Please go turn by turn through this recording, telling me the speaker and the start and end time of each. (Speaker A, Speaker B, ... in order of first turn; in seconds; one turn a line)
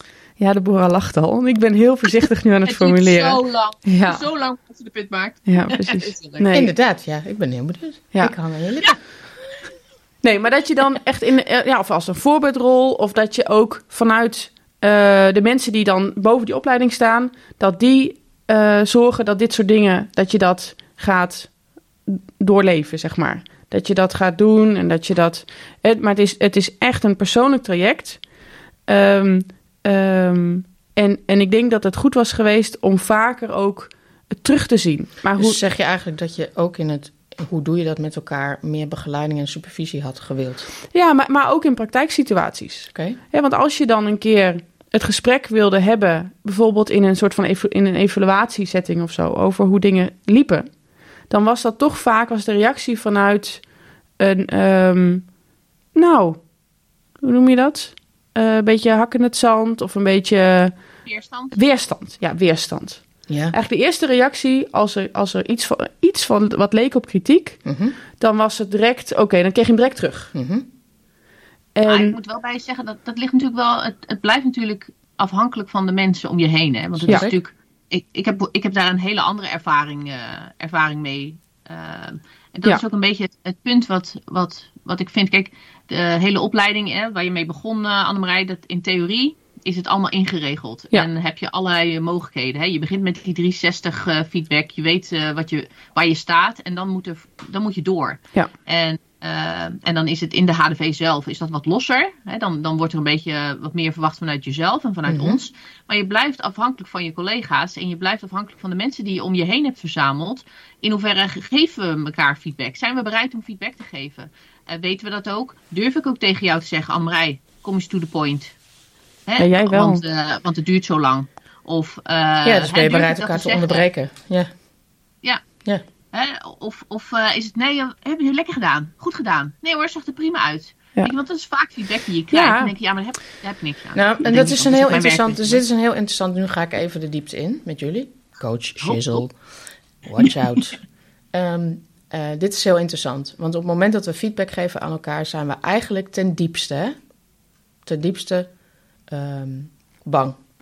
Speaker A: 0.4-4.2
Speaker B: 2.6-6.5
Speaker A: 5.5-6.7
Speaker C: 6.5-9.0
Speaker A: 10.2-28.3
Speaker A: 28.8-35.6
Speaker C: 35.4-40.7
Speaker A: 40.9-55.3
Speaker A: 55.9-56.5
Speaker A: 57.2-60.8
Speaker B: 61.0-61.5
Speaker A: 61.5-67.6
Speaker C: 63.3-63.5
Speaker C: 67.7-67.9
Speaker A: 68.2-70.3
Speaker C: 70.3-70.7
Speaker A: 71.8-72.2
Speaker B: 71.8-118.5
Speaker C: 77.0-77.3
Speaker C: 105.1-105.4
Speaker B: 119.3-123.8
Speaker A: 119.4-120.0
Speaker C: 122.4-124.5
Speaker B: 126.1-135.6
Speaker A: 132.3-132.7
Speaker C: 133.9-139.3
Speaker B: 138.8-139.2
Speaker C: 140.0-140.8
Speaker C: 141.3-147.0
Speaker C: 147.8-148.5
Speaker C: 149.1-150.4